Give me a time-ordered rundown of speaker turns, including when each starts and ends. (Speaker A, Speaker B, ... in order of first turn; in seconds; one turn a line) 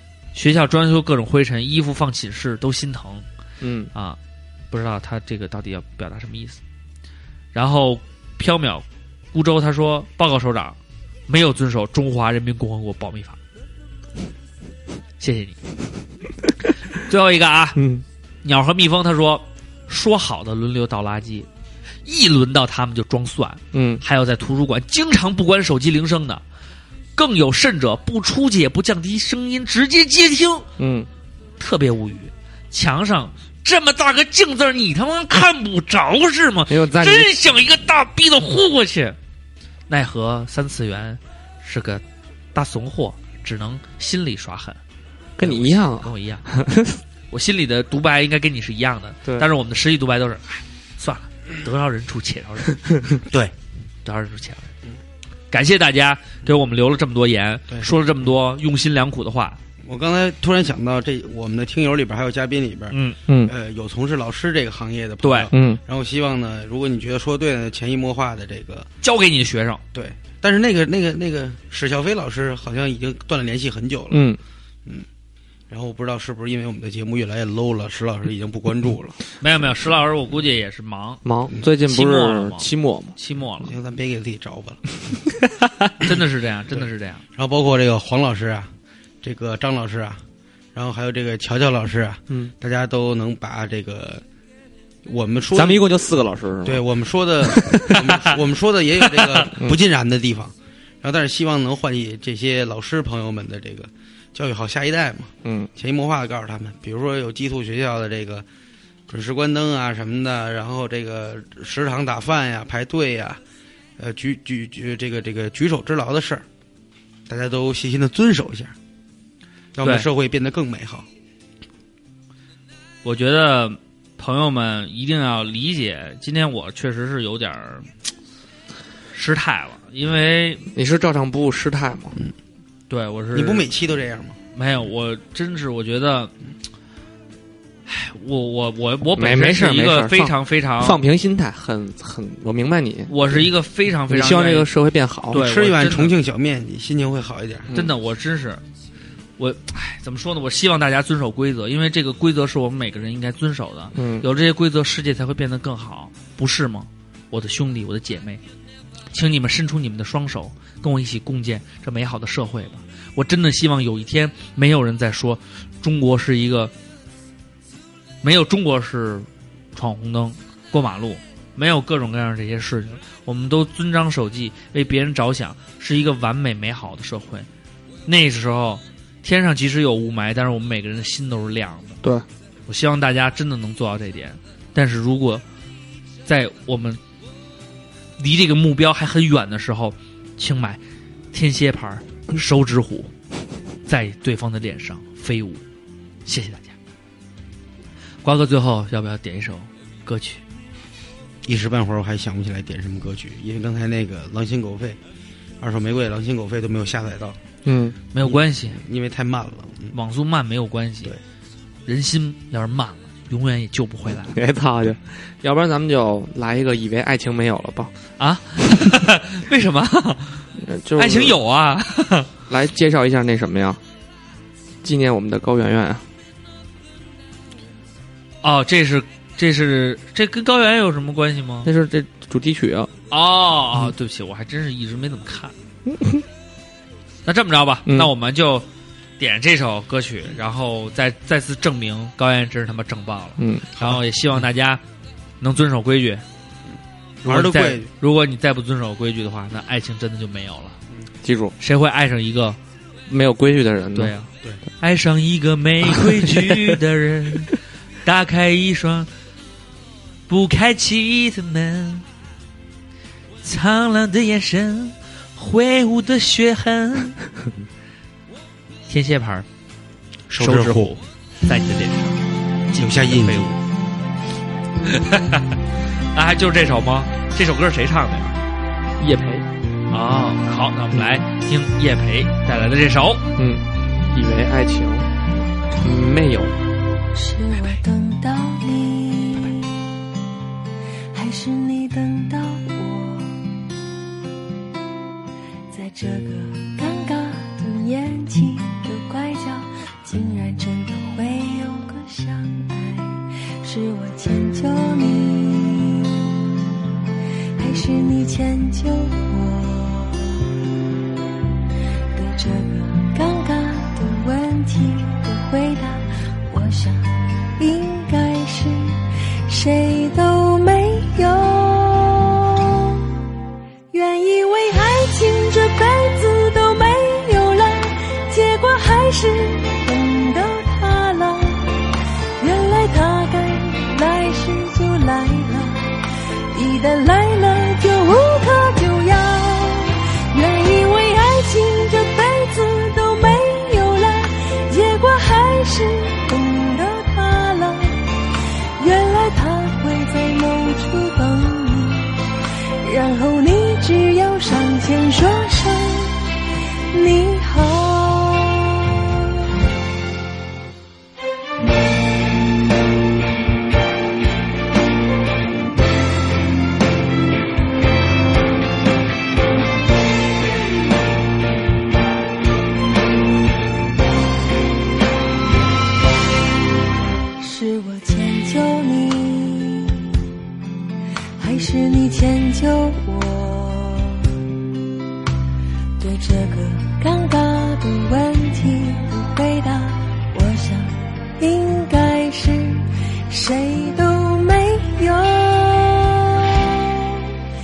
Speaker A: 0.3-3.2
Speaker B: 3.6-3.9
Speaker A: 4.7-6.6
Speaker A: 7.5-10.8
Speaker A: 11.3-13.4
Speaker A: 15.2-15.6
Speaker A: 17.0-17.8
Speaker B: 17.8-18.0
Speaker A: 18.4-21.5
Speaker A: 22.1-26.4
Speaker B: 23.7-24.0
Speaker A: 27.1-30.7
Speaker B: 30.8-31.1
Speaker A: 31.6-39.2
Speaker B: 36.7-37.3
Speaker A: 39.9-42.0
Speaker A: 42.5-44.8
Speaker B: 45.4-47.0
Speaker A: 45.4-46.5
Speaker A: 47.3-52.9
Speaker C: 53.3-53.5
Speaker A: 54.0-54.7
Speaker A: 55.5-59.6
Speaker C: 59.8-68.9
Speaker A: 62.9-63.2
Speaker A: 65.2-65.5
Speaker B: 65.5-65.8
Speaker A: 69.0-69.8
Speaker C: 69.9-74.2
Speaker B: 74.1-74.4
Speaker C: 75.7-79.2
Speaker A: 79.4-81.2
Speaker B: 81.2-83.1
Speaker A: 81.8-83.7
Speaker C: 83.6-84.8
Speaker B: 85.6-85.9
Speaker A: 86.0-87.2
Speaker C: 87.3-88.7
Speaker C: 89.2-90.2
Speaker C: 90.7-94.2
Speaker C: 95.0-95.8
Speaker B: 95.5-96.8
Speaker C: 96.6-108.5
Speaker B: 97.5-98.0
Speaker A: 99.2-99.5
Speaker B: 105.4-105.7
Speaker C: 109.1-113.4
Speaker C: 114.0-116.5
Speaker C: 117.3-118.7
Speaker C: 119.8-121.1
Speaker A: 119.8-120.1
Speaker A: 123.0-127.9
Speaker A: 129.1-130.6
Speaker B: 130.7-132.2
Speaker A: 132.9-133.7
Speaker C: 133.3-134.4
Speaker A: 134.5-136.3
Speaker A: 137.9-141.0
Speaker B: 139.2-143.4
Speaker A: 143.1-144.7
Speaker B: 144.1-145.4
Speaker A: 145.3-146.1
Speaker C: 145.3-147.7
Speaker A: 147.7-148.6
Speaker A: 149.4-158.4
Speaker B: 153.9-154.3
Speaker A: 159.1-166.7
Speaker A: 168.2-177.5
Speaker A: 178.1-182.0
Speaker A: 182.7-185.4
Speaker A: 186.2-187.0
Speaker A: 188.2-190.8
Speaker A: 191.3-193.1
Speaker A: 193.9-195.6
Speaker A: 196.2-196.7
Speaker A: 198.2-200.4
Speaker C: 201.4-205.0
Speaker C: 205.6-207.4
Speaker B: 207.7-207.9
Speaker A: 208.1-208.8
Speaker C: 208.2-209.9
Speaker A: 209.9-211.2
Speaker A: 211.9-214.3
Speaker B: 214.3-217.9
Speaker A: 218.2-220.4
Speaker B: 220.6-221.4
Speaker A: 220.9-222.3
Speaker B: 222.5-223.8
Speaker B: 224.8-226.0
Speaker A: 228.4-231.7
Speaker B: 231.6-232.9
Speaker A: 233.1-235.5
Speaker B: 235.9-236.2
Speaker A: 237.2-238.7
Speaker A: 239.2-244.8
Speaker B: 243.4-243.7
Speaker A: 245.4-246.2
Speaker C: 247.2-247.9
Speaker A: 247.2-250.8
Speaker B: 251.2-251.5
Speaker A: 251.6-252.6
Speaker B: 253.1-254.1
Speaker A: 253.9-259.1
Speaker A: 260.3-262.0
Speaker A: 263.4-267.2
Speaker A: 268.9-269.4
Speaker C: 270.3-270.9
Speaker A: 270.3-272.2
Speaker A: 272.7-273.6
Speaker C: 272.7-273.6
Speaker A: 274.8-275.6
Speaker A: 276.1-278.3
Speaker B: 279.0-279.4
Speaker A: 279.9-283.2
Speaker B: 283.4-285.1
Speaker B: 285.8-286.5
Speaker D: 287.1-289.7
Speaker D: 291.1-293.4
Speaker D: 295.7-306.2
Speaker D: 307.6-310.4
Speaker D: 312.1-322.9
Speaker D: 323.9-331.8
Speaker D: 332.4-348.1
Speaker D: 348.8-352.3
Speaker D: 352.8-356.3
Speaker D: 356.9-358.6
Speaker D: 377.4-380.1
Speaker D: 381.4-384.3
Speaker D: 386.0-397.2